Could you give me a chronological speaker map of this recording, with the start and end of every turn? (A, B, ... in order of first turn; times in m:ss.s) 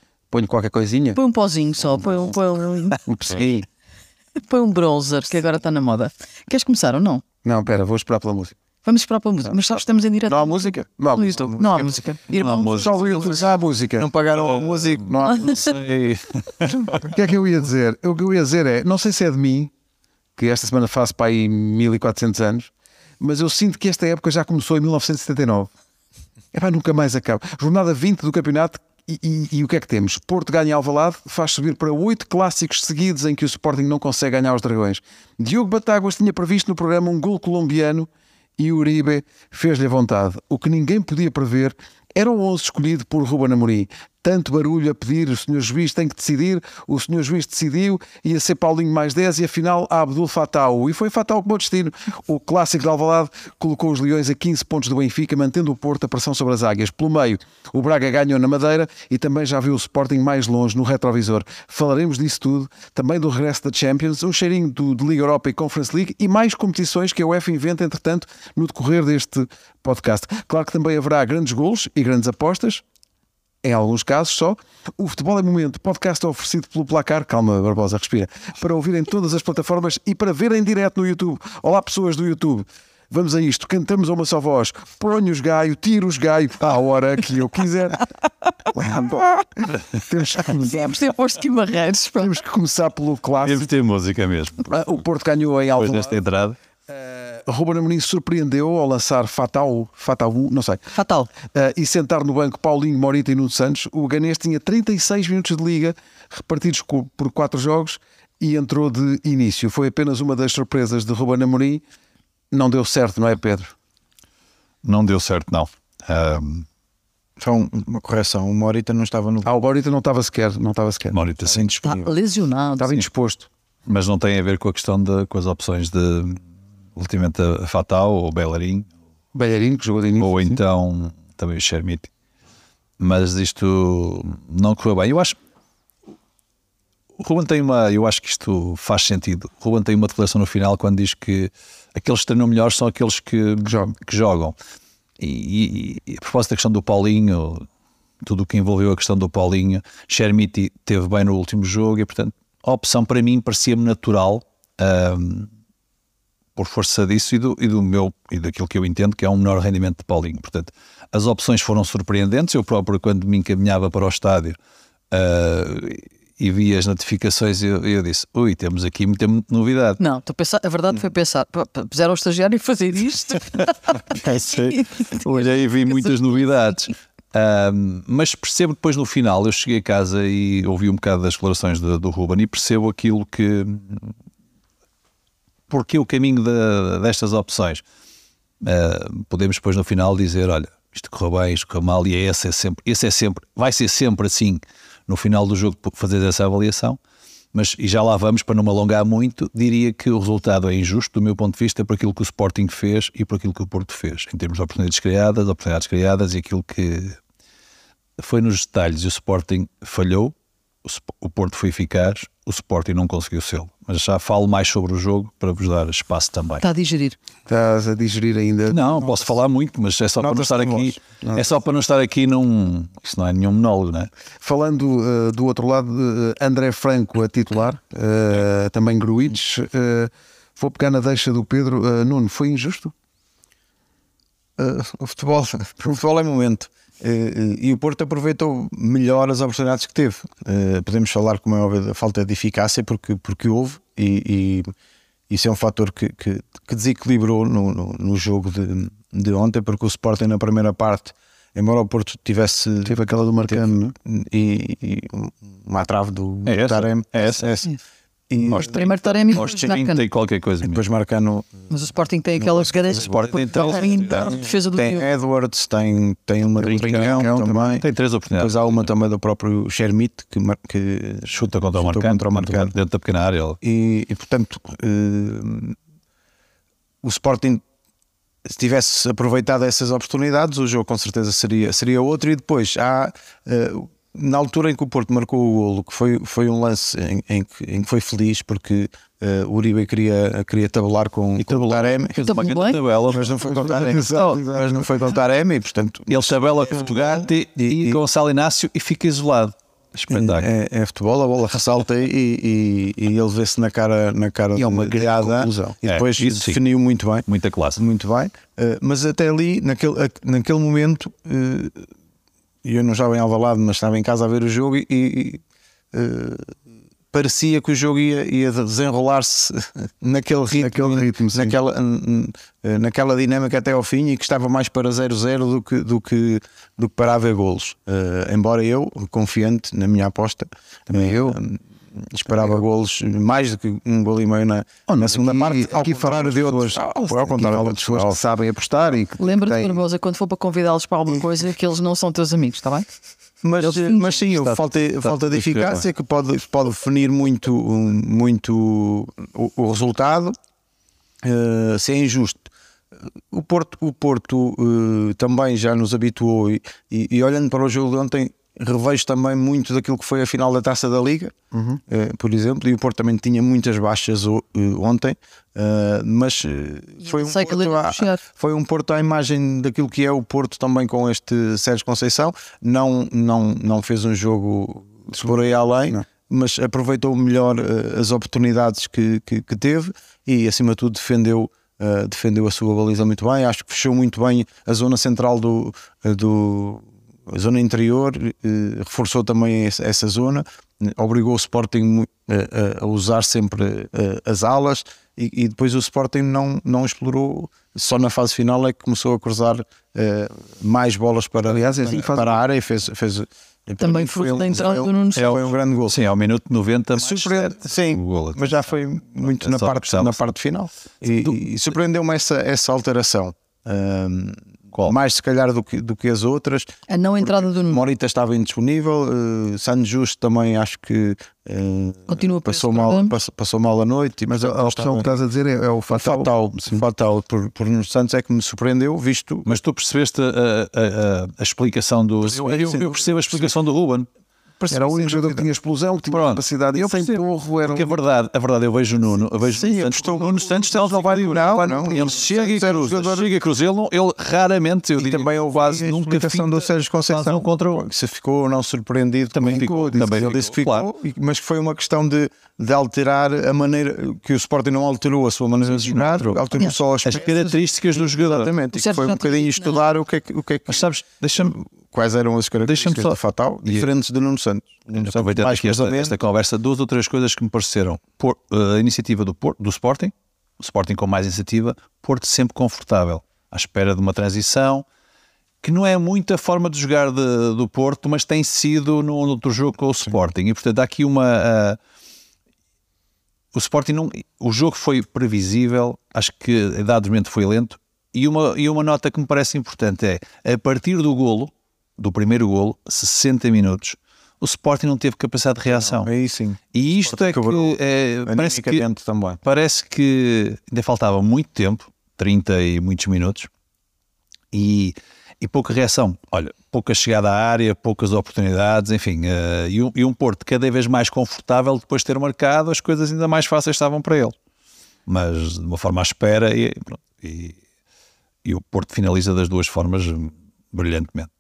0:00.3-0:01.2 A
0:01.2-0:03.0 B
0:03.1-0:03.7 A
0:04.4-0:07.2 B
0:07.4-0:08.6 A
0:08.8-0:12.9 B
0:10.4-0:11.6 A
0:11.4-0:12.0 C
0:12.4-0:13.0 D
0:12.7-0:14.1 A
0:14.0-0:15.5 C
0:15.0-0:15.7 A
0:15.4-0:16.8 D
0:17.0-0:19.7 A
0:20.4-0:25.7 A
0:26.5-1:12.8 A
1:13.6-1:28.1 A
1:28.7-1:30.7 A
1:30.5-1:32.4 B
1:32.2-1:33.7 A
1:33.4-1:34.7 D
1:34.6-1:36.2 A
1:35.8-1:36.6 D
1:36.9-1:40.8 A
1:40.9-1:41.3 B
1:41.5-1:51.8 A
1:52.5-1:53.7 A
1:54.8-1:56.7 D
1:57.4-1:59.5 C
1:59.4-2:01.2 A
2:01.1-2:01.8 D
2:01.4-2:02.1 C
2:01.8-2:03.0 B
2:02.8-2:03.5 A
2:03.9-2:06.4 D
2:07.0-2:08.9 D
2:09.3-2:10.6 A
2:10.2-2:12.1 D
2:13.0-2:15.4 D
2:17.2-2:24.6 D
2:23.6-2:23.9 A
2:25.2-2:27.7 D
2:28.2-2:35.5 D
2:36.6-2:44.6 D
2:45.1-2:50.0 D
2:50.0-2:55.2 B
2:54.2-3:04.2 D
3:05.7-3:07.8 D
3:08.6-3:17.0 D
3:17.5-3:27.2 D
3:28.2-3:36.6 D
3:36.6-3:37.2 B
3:37.5-3:38.8 A
3:38.7-3:44.1 D
3:40.2-3:41.0 C
3:44.4-3:52.9 A
3:54.6-4:04.7 C
4:05.3-4:13.0 C
4:12.8-4:13.9 A
4:13.5-4:17.7 C
4:16.4-4:17.5 D
4:18.3-4:18.7 C
4:18.5-4:20.0 B
4:18.5-4:20.8 D
4:20.6-4:21.7 C
4:21.7-4:25.1 B
4:22.4-4:23.2 C
4:22.9-4:24.4 D
4:24.1-4:32.7 C
4:26.6-4:28.8 D
4:26.7-4:27.8 A
4:31.3-4:33.6 D
4:33.6-4:35.8 C
4:37.0-4:37.6 C
4:38.5-4:52.2 C
4:51.4-4:53.9 D
4:52.2-4:52.8 B
4:53.1-4:58.0 C
4:56.1-5:00.5 D
5:00.1-5:11.9 C
5:04.6-5:05.8 A
5:05.8-5:06.6 D
5:07.3-5:07.8 D
5:12.6-5:16.6 C
5:17.1-5:38.2 C
5:20.5-5:21.6 A
5:30.9-5:31.4 A
5:34.9-5:39.8 A
5:39.2-5:42.9 B
5:43.4-5:50.4 C
5:43.6-5:44.2 B
5:44.4-5:45.8 D
5:51.2-5:52.5 C
5:53.3-6:01.4 C
6:01.5-6:01.8 A
6:01.9-6:46.0 C
6:07.0-6:08.2 B
6:41.5-6:42.4 A
6:43.8-6:45.3 B
6:45.2-6:50.2 D
6:47.0-7:05.1 C
6:56.9-6:57.8 B
7:02.1-7:03.2 B
7:04.3-7:06.8 A
7:05.9-7:09.6 C
7:09.5-7:14.1 D
7:12.2-7:13.5 C
7:14.6-7:15.5 C
7:14.7-7:18.0 A
7:16.1-7:27.9 D
7:19.3-7:23.3 C
7:25.0-7:40.8 C
7:29.3-7:30.9 D
7:29.5-7:30.3 A
7:35.9-7:38.5 D
7:38.7-7:39.8 B
7:40.7-7:41.6 D
7:41.7-7:46.2 C
7:42.6-7:43.9 D
7:45.0-7:54.8 D
7:55.6-8:01.8 D
8:03.5-8:16.1 D
8:15.7-8:19.4 C
8:16.7-8:18.9 D
8:19.4-8:23.5 D
8:24.5-8:34.4 D
8:35.1-8:37.6 D
8:38.4-8:41.3 D